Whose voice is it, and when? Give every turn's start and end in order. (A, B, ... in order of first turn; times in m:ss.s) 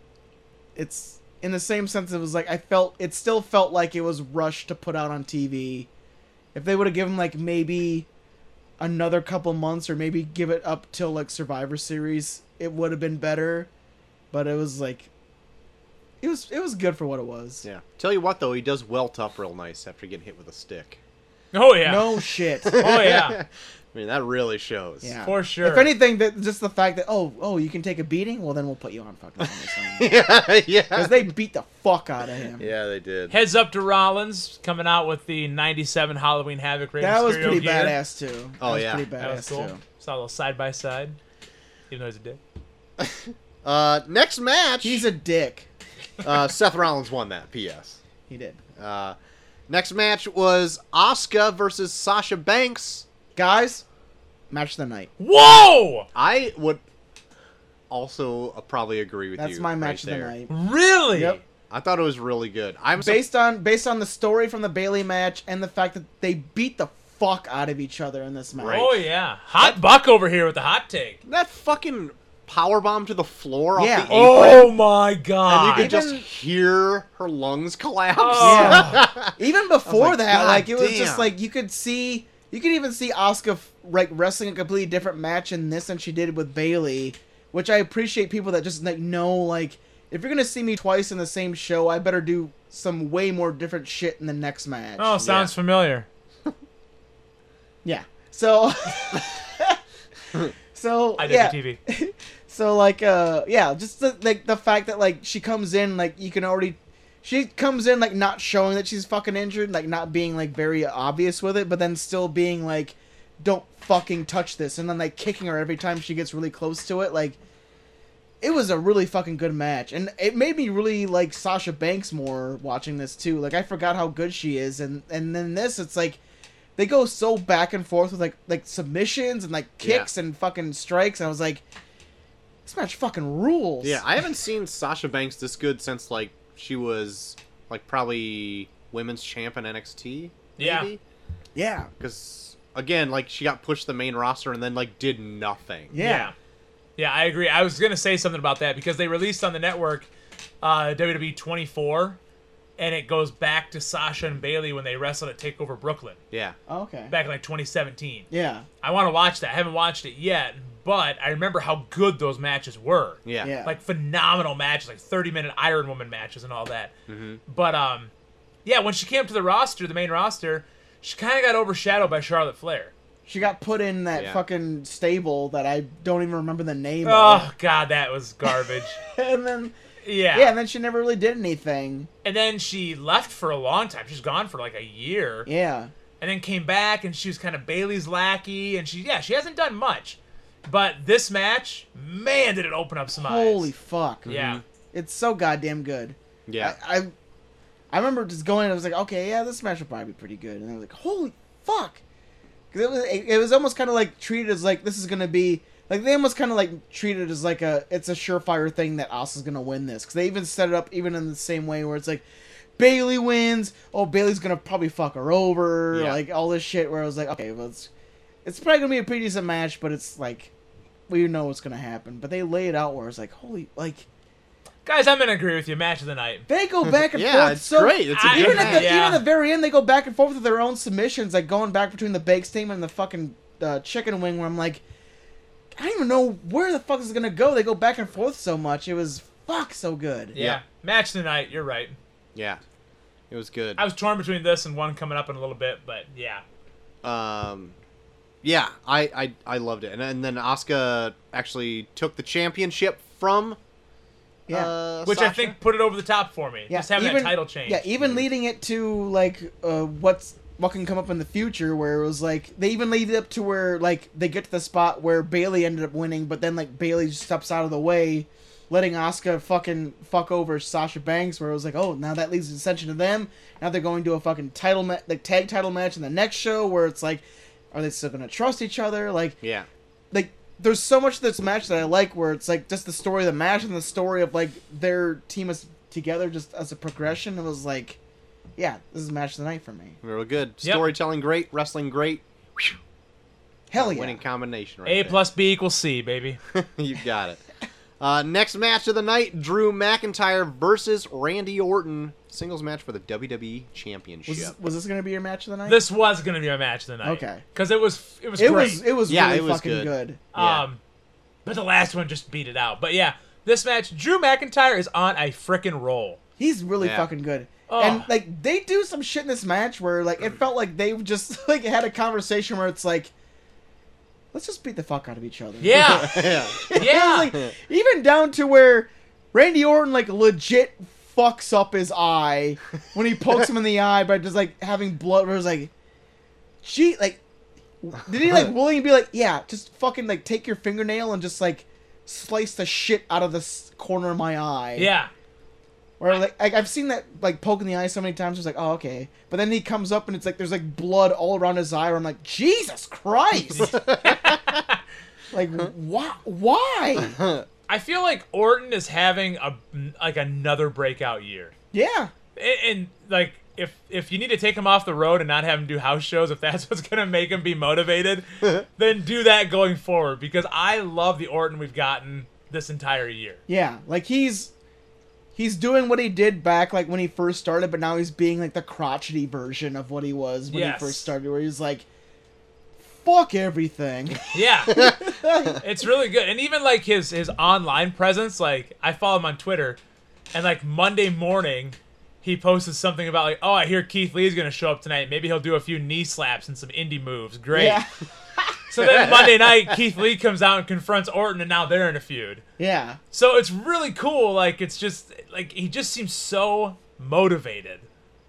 0:00.8-0:05.9 A
0:06.5-0:08.1 A
0:08.8-0:13.7 A
0:14.3-0:15.1 A
0:16.2-0:17.6 A
0:17.6-0:21.0 B
0:21.5-0:22.1 C
0:21.8-0:22.8 A
0:22.6-0:25.1 B
0:22.7-0:23.4 C
0:25.0-0:30.1 A
0:25.2-0:25.9 C
0:29.4-0:31.1 B
0:30.9-0:32.6 A
0:32.6-0:33.3 B
0:33.3-0:38.0 C
0:37.0-0:39.8 A
0:38.6-0:39.1 B
0:39.2-0:41.2 C
0:41.9-0:42.4 C
0:43.0-0:45.0 B
0:44.8-0:45.7 A
0:46.2-0:48.0 B
0:48.3-0:48.6 A
0:48.8-0:49.2 B
0:49.7-0:53.0 B
0:53.4-0:53.8 A
0:54.5-0:55.1 A
0:55.2-0:56.1 C
0:56.1-0:56.8 B
0:57.9-1:00.3 B
0:59.4-1:00.5 A
1:00.5-1:01.4 C
1:01.1-1:01.4 A
1:01.7-1:03.2 B
1:03.0-1:08.9 A
1:08.5-1:09.0 B
1:08.7-1:11.2 C
1:11.2-1:14.7 B
1:13.8-1:14.2 A
1:14.1-1:15.9 C
1:15.5-1:21.3 B
1:15.6-1:16.2 A
1:18.2-1:19.0 C
1:18.4-1:35.2 A
1:35.0-1:36.1 C
1:35.2-1:35.5 B
1:37.8-1:39.8 A
1:40.3-1:57.4 A
1:41.2-1:41.8 C
1:58.4-2:06.2 A
2:06.8-2:11.6 A
2:09.8-2:10.1 B
2:12.6-2:14.0 A
2:13.8-2:21.0 B
2:20.6-2:20.9 C
2:21.5-2:21.9 A
2:22.0-2:25.9 B
2:25.9-2:26.3 A
2:26.0-2:26.3 C
2:27.0-2:30.1 C
2:30.6-2:32.2 C
2:32.8-2:36.2 C
2:36.3-2:36.6 B
2:36.7-2:37.1 A
2:37.1-2:38.3 C
2:38.3-2:38.6 A
2:38.8-2:46.9 C
2:43.2-2:43.5 B
2:43.4-2:43.8 A
2:47.1-2:47.4 B
2:47.4-2:48.1 C
2:48.6-2:52.9 C
2:53.2-2:57.5 A
2:54.1-2:54.4 B
2:57.0-2:59.0 C
2:58.5-2:59.7 A
3:00.0-3:00.5 C
3:00.3-3:02.1 A
3:02.2-3:05.5 C
3:05.4-3:05.9 A
3:06.2-3:13.7 C
3:13.1-3:14.3 A
3:14.2-3:14.6 C
3:14.2-3:14.6 B
3:14.9-3:17.1 A
3:16.5-3:16.8 B
3:17.9-3:22.0 A
3:22.7-3:32.2 A
3:32.8-3:37.9 A
3:35.9-3:36.2 B
3:38.4-3:40.5 A
3:41.1-3:44.0 A
3:44.8-3:46.4 C
3:46.5-3:54.8 A
3:46.9-3:48.9 B
3:48.1-3:49.2 C
3:55.8-4:00.4 A
4:00.3-4:00.6 B
4:00.3-4:02.0 C
4:02.3-4:02.6 B
4:03.3-4:03.8 B
4:03.8-4:06.4 C
4:07.0-4:07.7 B
4:08.4-4:13.6 B
4:14.5-4:15.6 B
4:15.0-4:17.8 C
4:16.7-4:39.4 A
4:39.4-4:39.7 B
4:40.1-4:48.0 A
4:48.6-4:50.0 A
4:50.0-4:52.8 B
4:50.6-4:50.9 C
4:53.7-4:54.2 A
4:53.8-4:55.2 B
4:54.8-4:56.4 C
4:56.5-4:57.4 B
4:58.0-5:04.5 B
5:04.3-5:05.8 A
5:05.6-5:08.8 C
5:07.0-5:07.4 A
5:08.4-5:10.2 A
5:09.1-5:10.6 B
5:10.3-5:10.8 C
5:11.4-5:16.2 C
5:16.4-5:23.1 A
5:16.8-5:17.1 B
5:17.7-5:18.1 C
5:24.3-5:35.7 A
5:25.6-5:26.2 C
5:25.8-5:27.5 B
5:26.7-5:27.3 C
5:36.6-5:37.2 A
5:37.8-5:44.9 A
5:44.8-5:45.1 C
5:46.0-5:53.8 A
5:53.6-5:54.6 B
5:54.0-5:54.8 C
5:55.3-5:57.1 A
5:57.0-5:57.4 B
5:57.7-6:01.5 C
6:01.7-6:02.1 A
6:02.4-6:13.4 C
6:13.5-6:14.5 A
6:15.4-6:21.8 A
6:20.5-6:21.1 C
6:22.8-6:25.6 A
6:24.3-6:24.9 C
6:24.7-6:25.0 B
6:25.6-6:29.8 C
6:30.3-6:37.8 C
6:37.5-6:38.6 A
6:38.7-6:42.4 C
6:38.8-6:39.8 B
6:42.6-6:43.0 A
6:43.1-6:47.9 C